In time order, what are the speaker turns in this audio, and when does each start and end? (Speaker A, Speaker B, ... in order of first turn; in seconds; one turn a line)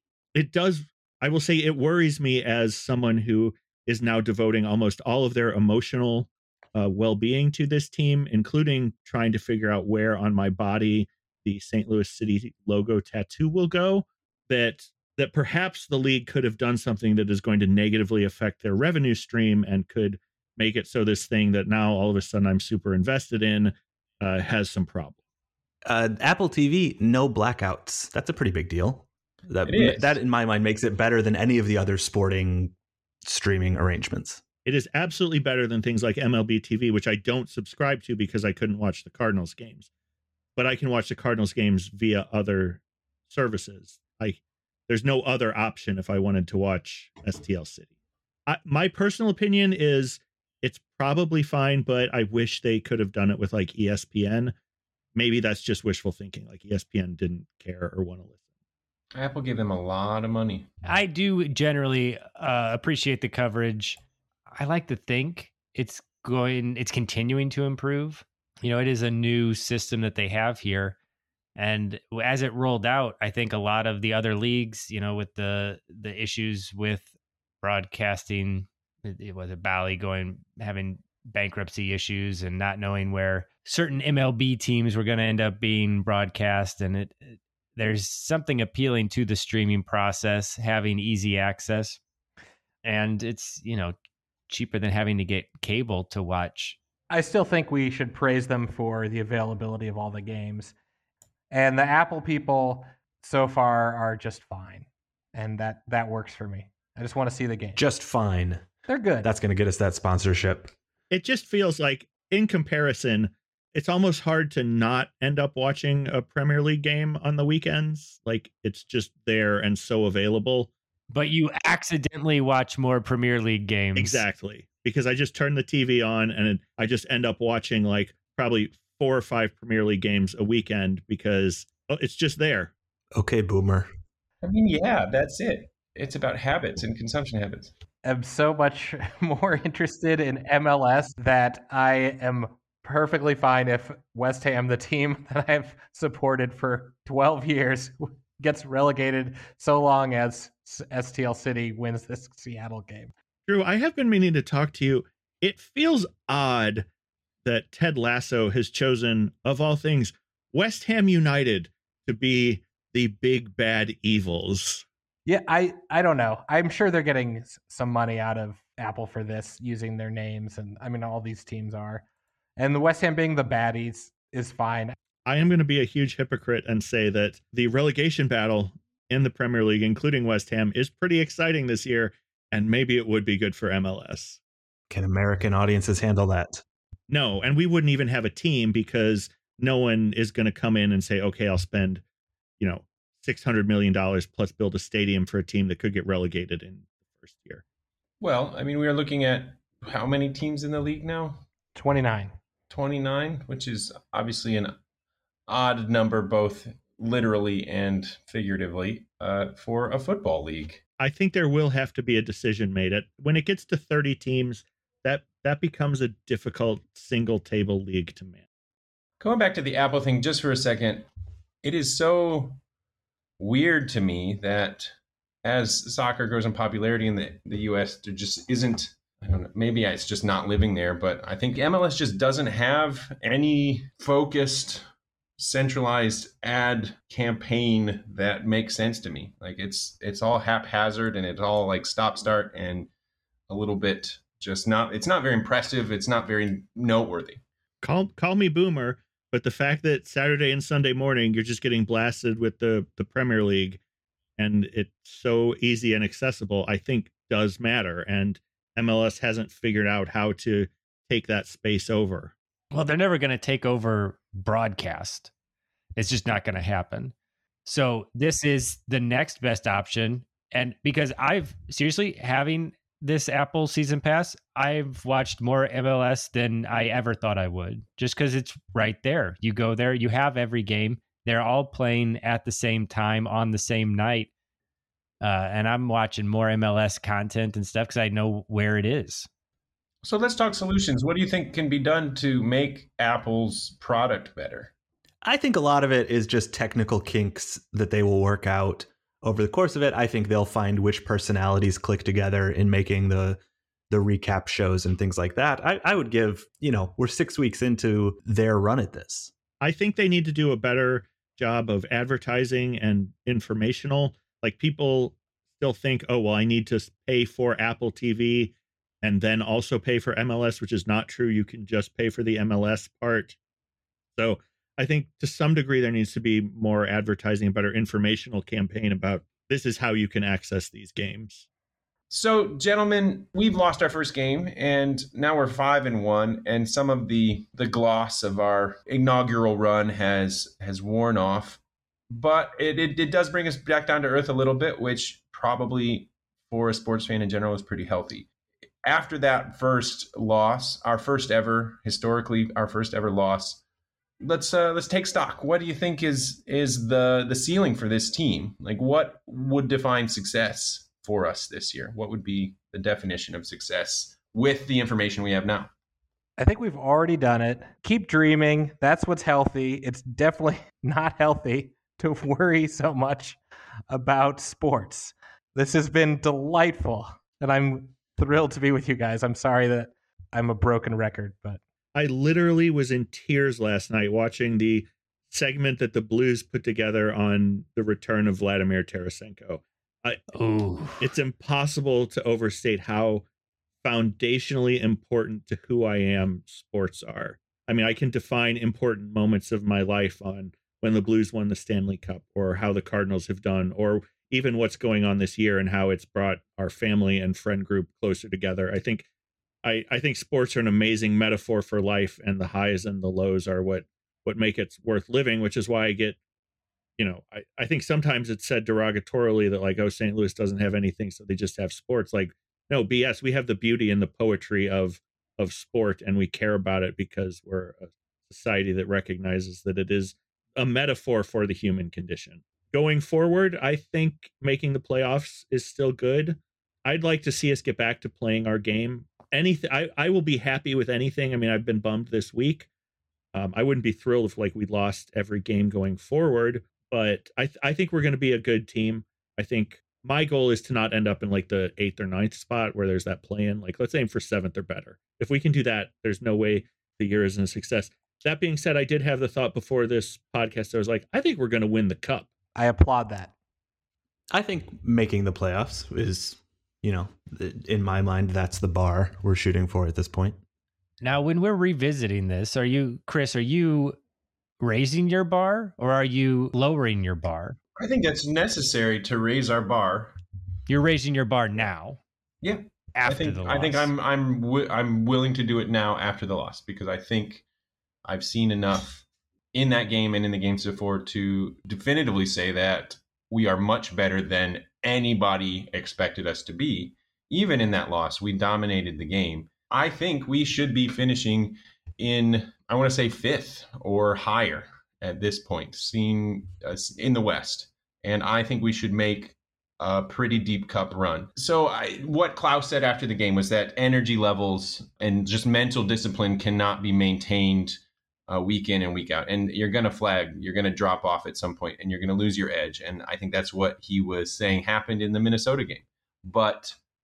Speaker A: 0.3-25.2
Speaker B: 25.9-32.7
Speaker C: 29.6-30.1
Speaker B: 33.2-34.4
Speaker A: 34.6-39.9
Speaker A: 40.5-47.9
Speaker A: 48.5-54.5
Speaker A: 55.1-58.4
Speaker C: 59.1-60.7
Speaker D: 60.8-71.0
Speaker D: 71.6-77.1
Speaker D: 77.6-92.0
Speaker D: 92.8-93.9
Speaker D: 94.5-96.8
Speaker E: 97.1-100.7
Speaker E: 101.5-107.8
Speaker B: 107.8-108.6
Speaker E: 108.9-109.3
Speaker B: 109.2-110.7
Speaker A: 111.1-120.7
Speaker D: 121.1-124.2
Speaker A: 123.9-132.7
Speaker B: 133.1-133.9
Speaker C: 134.4-137.7
Speaker E: 138.0-153.1
Speaker A: 153.5-156.8
Speaker A: 157.4-164.8
Speaker E: 165.2-172.0
Speaker E: 172.6-174.9
Speaker A: 175.2-184.4
Speaker B: 184.9-186.6
Speaker A: 187.1-192.0
Speaker A: 192.6-197.6
Speaker C: 198.2-201.4
Speaker E: 201.7-202.3
Speaker C: 202.7-204.7
Speaker C: 205.5-210.8
Speaker A: 211.0-218.4
Speaker C: 219.2-221.1
Speaker C: 221.6-222.6
Speaker C: 223.4-234.8
Speaker C: 235.4-242.9
Speaker C: 243.5-247.4
Speaker A: 247.8-253.8
Speaker A: 254.4-262.3
Speaker D: 262.7-265.3
Speaker D: 265.9-267.1
Speaker D: 267.6-284.3
Speaker D: 285.2-289.3
Speaker C: 290.0-294.7
Speaker B: 295.2-309.3
Speaker A: 309.6-323.4
Speaker A: 324.1-331.4
Speaker C: 332.1-348.3
Speaker C: 348.8-353.6
Speaker C: 354.2-365.7
Speaker E: 366.4-373.4
Speaker E: 373.9-381.6
Speaker A: 381.9-390.2
Speaker D: 390.3-391.1
Speaker A: 391.0-393.2
Speaker A: 393.8-409.1
Speaker A: 409.6-416.2
Speaker A: 417.0-442.7
Speaker A: 443.3-462.3
Speaker E: 462.5-463.3
Speaker B: 464.3-470.4
Speaker D: 471.0-474.0
Speaker D: 474.6-477.6
Speaker C: 477.8-480.1
Speaker D: 480.7-482.0
Speaker C: 482.4-487.4
Speaker D: 482.9-483.9
Speaker C: 488.0-526.8